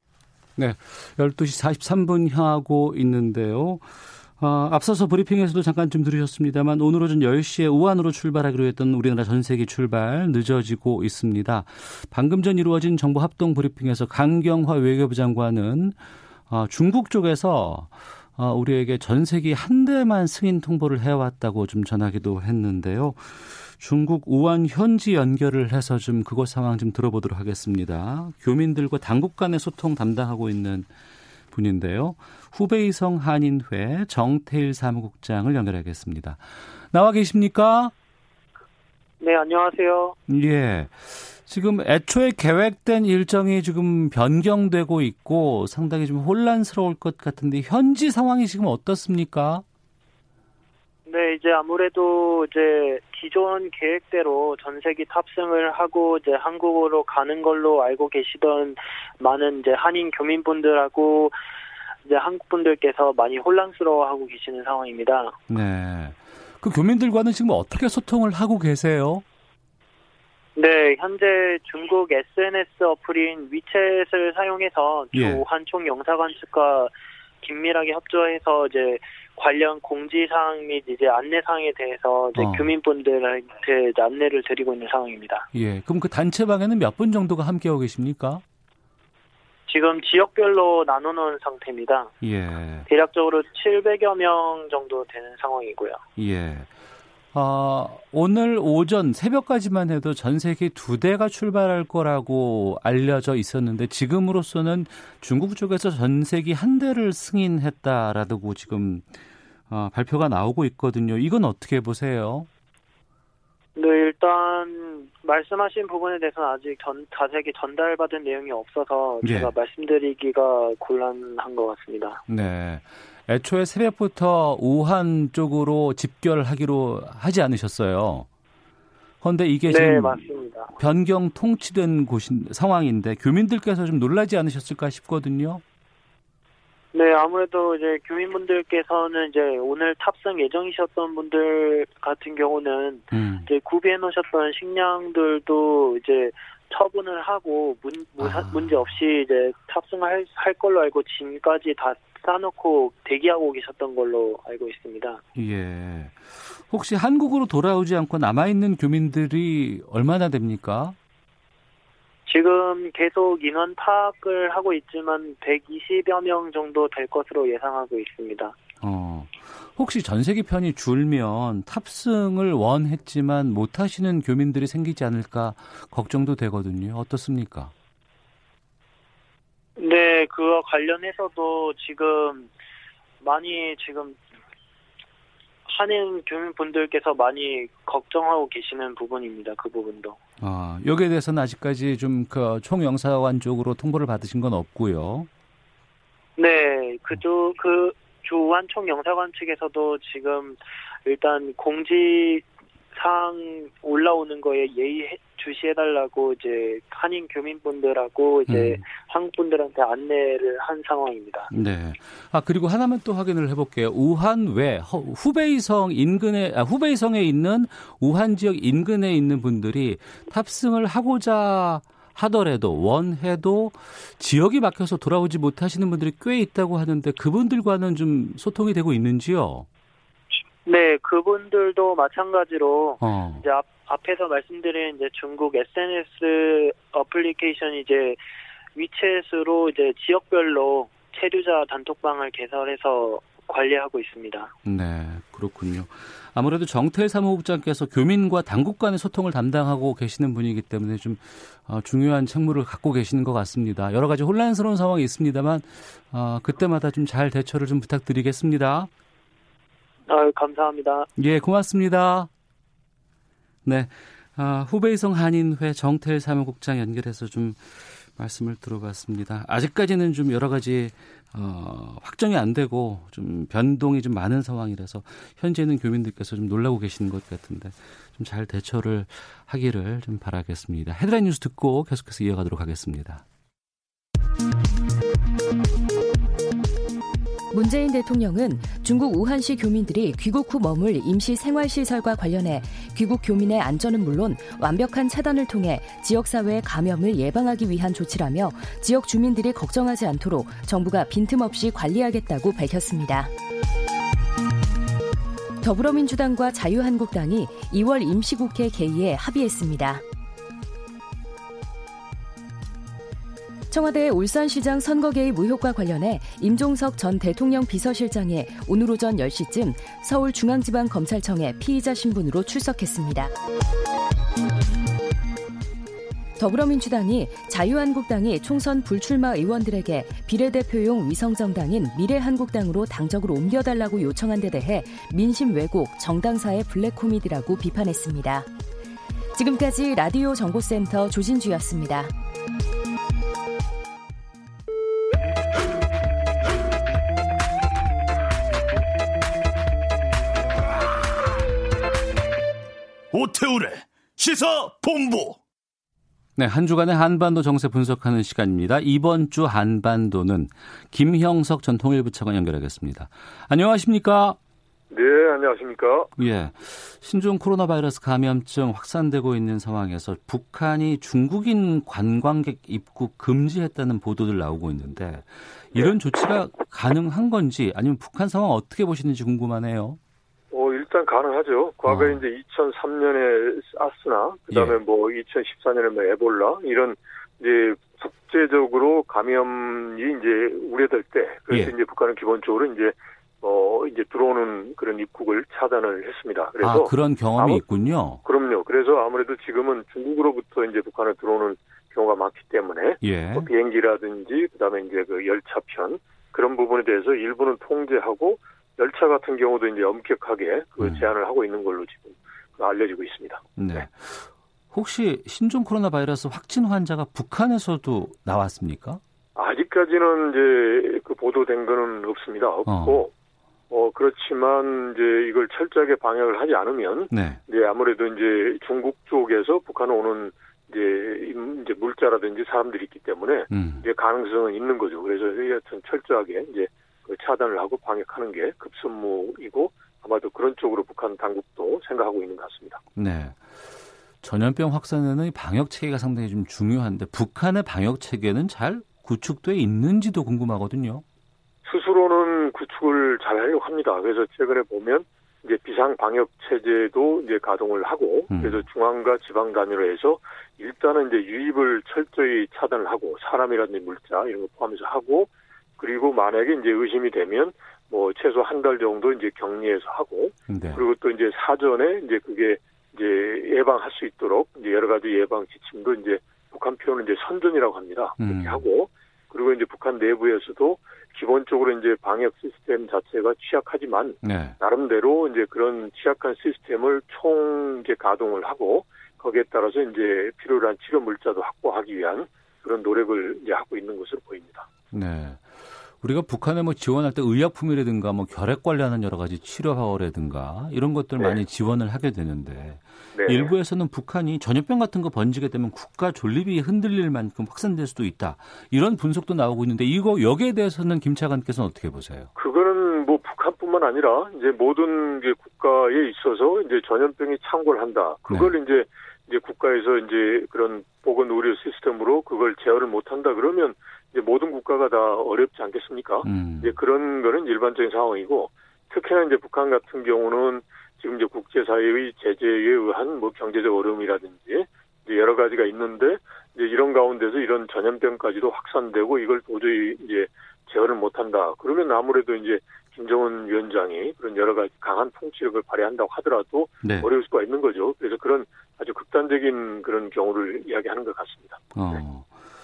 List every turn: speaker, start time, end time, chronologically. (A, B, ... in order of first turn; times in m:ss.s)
0:00.6-0:16.0 A
0:16.5-0:30.9 A
0:31.5-0:37.9 A
0:39.2-0:40.2 B
0:40.3-0:49.6 A
0:51.1-1:01.3 B
1:02.0-1:05.4 B
1:05.5-1:09.2 A
1:10.6-1:25.5 B
1:15.1-1:15.4 A
1:22.4-1:22.7 A
1:25.5-1:28.4 A
1:29.7-1:32.1 B
1:32.2-1:32.9 A
1:32.9-1:36.0 B
1:36.2-1:36.7 A
1:37.3-1:49.1 A
1:49.7-1:52.5 A
1:53.8-2:02.2 B
1:59.2-1:59.5 A
2:02.3-2:08.3 A
2:09.2-2:15.6 A
2:09.7-2:10.7 B
2:16.9-2:35.2 B
2:23.1-2:23.5 A
2:28.2-2:28.9 A
2:35.4-2:41.0 A
2:42.3-2:48.6 B
2:48.8-2:57.7 A
2:59.8-3:02.5 B
3:03.2-3:04.2 B
3:05.6-3:10.2 B
3:10.4-3:15.3 A
3:16.4-3:31.5 B
3:28.5-3:28.8 A
3:31.5-3:49.7 A
3:50.6-3:58.2 B
3:53.0-3:53.4 A
3:58.7-4:04.5 B
4:04.6-4:18.9 A
4:20.1-4:21.1 B
4:21.2-4:22.3 A
4:23.6-4:43.2 A
4:47.5-5:03.3 C
5:05.6-5:10.0 C
5:13.7-5:23.3 C
5:26.4-5:38.5 C
5:39.3-5:42.1 C
5:53.1-5:55.4 D
5:56.4-6:04.4 A
6:04.9-6:06.1 E
6:06.2-6:20.0 A
6:20.5-6:37.6 E
6:21.9-6:22.2 A
6:24.5-6:24.8 A
6:36.6-6:38.2 A
6:38.2-6:53.8 E
6:43.0-6:43.5 A
6:50.8-6:51.1 A
6:53.6-6:59.0 A
6:59.4-7:03.1 E
7:02.7-7:03.0 A
7:03.7-7:22.8 E
7:07.1-7:07.4 A
7:13.5-7:13.9 A
7:23.0-7:23.5 A
7:24.2-7:31.0 A
7:31.6-8:14.7 E
7:38.3-7:38.6 A
7:50.5-7:50.8 A
7:58.2-7:58.6 A
8:04.2-8:04.6 A
8:14.9-8:32.3 A
8:23.1-8:23.5 E
8:32.4-9:12.0 E
8:38.3-8:38.5 A
8:46.2-8:46.8 A
9:06.8-9:07.1 A
9:11.7-9:12.3 A